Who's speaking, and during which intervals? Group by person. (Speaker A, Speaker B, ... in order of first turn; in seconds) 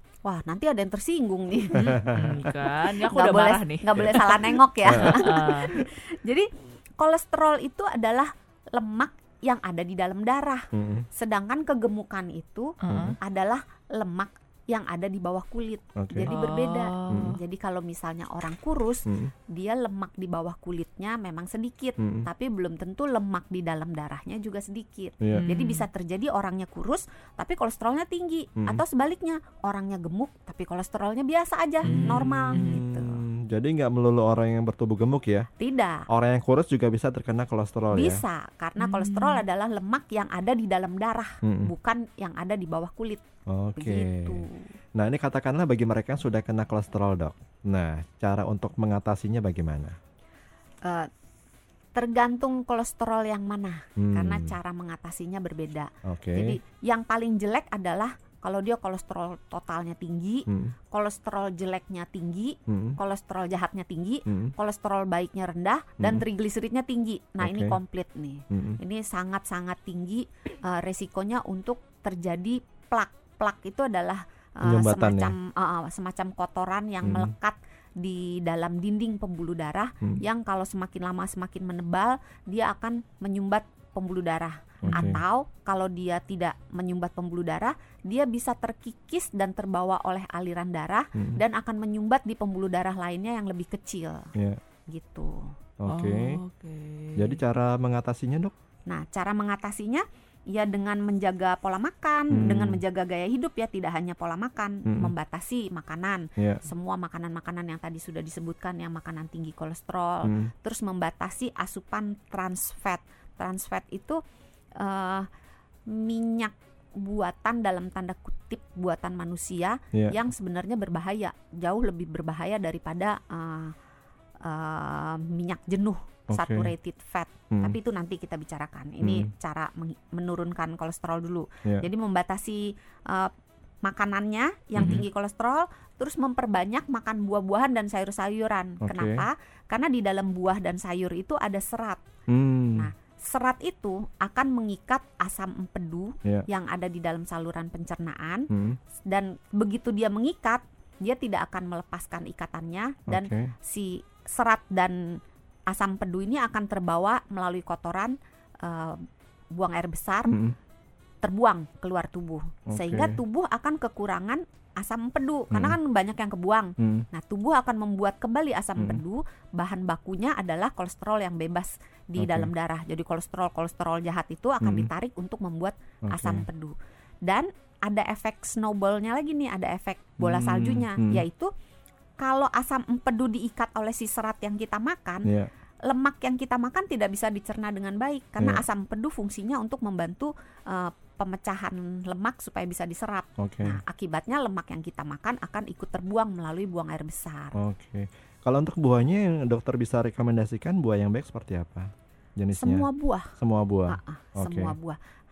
Speaker A: 0.2-1.9, 3.1-33.2, 35.6-36.1, 37.9-43.2, 43.8-44.7, 50.8-51.1, 51.9-94.3, 94.9-95.5, 98.9-114.2, 114.8-115.3, 115.9-123.7, 124.4-133.3, 133.8-142.0, 142.7-148.5, 149.0-160.4, 161.2-181.5, 182.2-185.3, 185.8-197.5, 202.5-203.3, 203.9-205.0
Speaker B: 1.7-2.5, 4.8-5.2, 10.7-11.1, 12.9-13.2, 15.9-16.3, 17.1-17.4, 19.1-19.3, 22.0-22.2, 25.2-25.5, 31.8-35.5, 36.1-38.2, 41.4-41.7, 43.5-44.4, 45.0-50.0, 54.0-54.5, 56.0-56.6, 60.5-60.7, 62.7-63.0, 64.3-64.5, 66.0-66.2, 67.4-67.8, 68.5-68.8, 74.6-75.3, 77.0-77.3, 84.8-85.2, 91.1-91.4, 94.3-94.6, 95.8-96.4, 97.2-98.5, 102.3-102.8, 104.9-105.1, 106.4-106.6, 110.2-110.5, 126.3-126.7, 129.0-129.3, 134.8-135.0, 138.8-139.2, 142.3-142.9, 148.5-148.8, 153.1-153.5, 160.3-160.5, 162.7-163.2, 165.5-165.8, 166.8-167.1, 172.2-172.5, 174.6-174.9, 176.0-176.4, 180.2-181.2, 185.2-185.5, 193.4-193.8, 197.5-202.8, 203.4-204.7
Speaker C: 1.7-5.7, 12.8-13.2, 16.2-17.4, 25.3-25.9, 31.8-32.8, 38.8-39.4, 84.9-85.2, 95.9-97.4